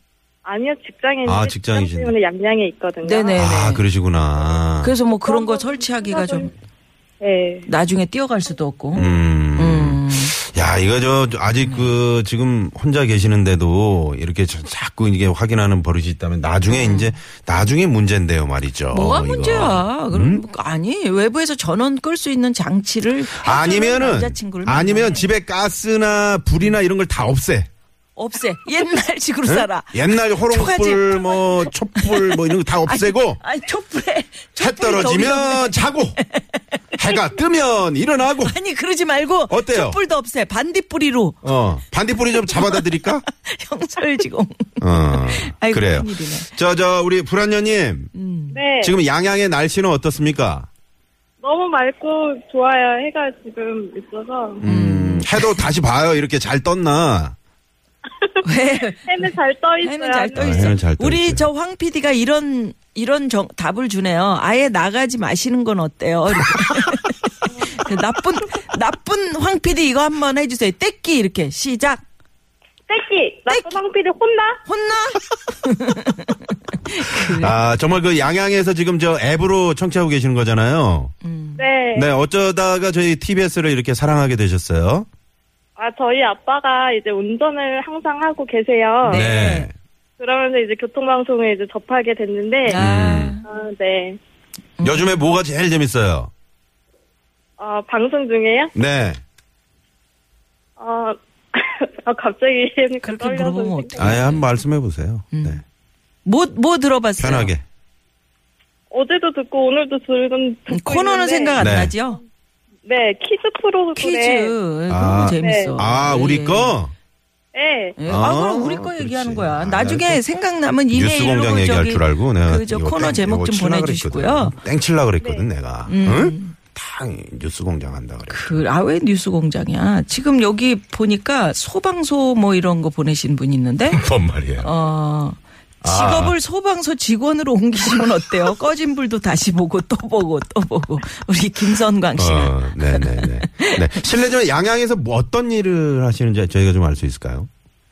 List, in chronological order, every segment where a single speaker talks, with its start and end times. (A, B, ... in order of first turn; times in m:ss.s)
0:00.4-0:03.4 A
0:01.2-0:02.1 B
0:03.0-0:03.8 C
0:03.4-0:05.0 B
0:04.8-0:06.5 C
0:05.2-0:06.5 A
0:07.2-0:07.7 A
0:07.6-0:10.4 C
0:08.9-0:20.4 B
0:11.5-0:11.9 C
0:16.7-0:17.2 C
0:18.9-0:25.3 C
0:23.3-0:27.7 B
0:28.2-0:36.6 C
0:29.4-0:33.4 B
0:34.6-0:36.2 B
0:37.0-0:38.6 B
0:38.3-0:41.4 C
0:39.5-0:40.0 B
0:41.4-0:43.2 B
0:42.3-0:46.5 C
0:44.8-0:48.1 B
0:48.1-0:48.6 C
0:48.5-0:48.9 A
0:48.8-0:50.7 B
0:51.4-0:54.6 A
0:54.6-0:57.4 B
0:54.6-0:55.6 C
0:58.4-0:59.2 C
0:59.0-1:00.7 A
0:59.8-1:12.0 C
1:00.3-1:01.5 B
1:12.9-1:14.6 A
1:13.5-1:13.8 C
1:14.7-1:17.5 C
1:17.0-1:21.1 B
1:21.2-1:21.6 C
1:21.6-1:22.1 A
1:21.9-1:25.1 B
1:25.8-1:29.2 A
1:29.0-1:29.7 C
1:29.1-1:29.7 B
1:30.2-1:32.8 A
1:32.6-1:33.4 C
1:32.7-1:33.4 B
1:33.4-1:34.2 A
1:34.8-1:35.1 C
1:34.8-1:36.3 B
1:37.6-1:38.7 A
1:38.7-1:39.2 B
1:40.8-1:44.2 A
1:43.0-1:44.5 C
1:44.0-1:45.6 B
1:45.3-1:45.6 C
1:46.2-1:47.5 C
1:47.2-1:47.6 B
1:48.9-1:51.7 A
1:50.7-1:52.2 C
1:51.6-1:52.0 B
1:52.8-1:54.5 A
1:54.0-1:56.8 C
1:54.9-1:56.9 B
1:55.4-1:55.8 A
1:57.5-1:58.0 A
1:58.0-2:04.6 C
1:58.1-2:00.2 B
2:00.9-2:08.6 B
2:05.2-2:05.4 A
2:05.8-2:06.6 C
2:08.3-2:14.0 C
2:13.9-2:14.7 B
2:14.6-2:24.0 C
2:15.8-2:16.4 B
2:22.2-2:27.5 B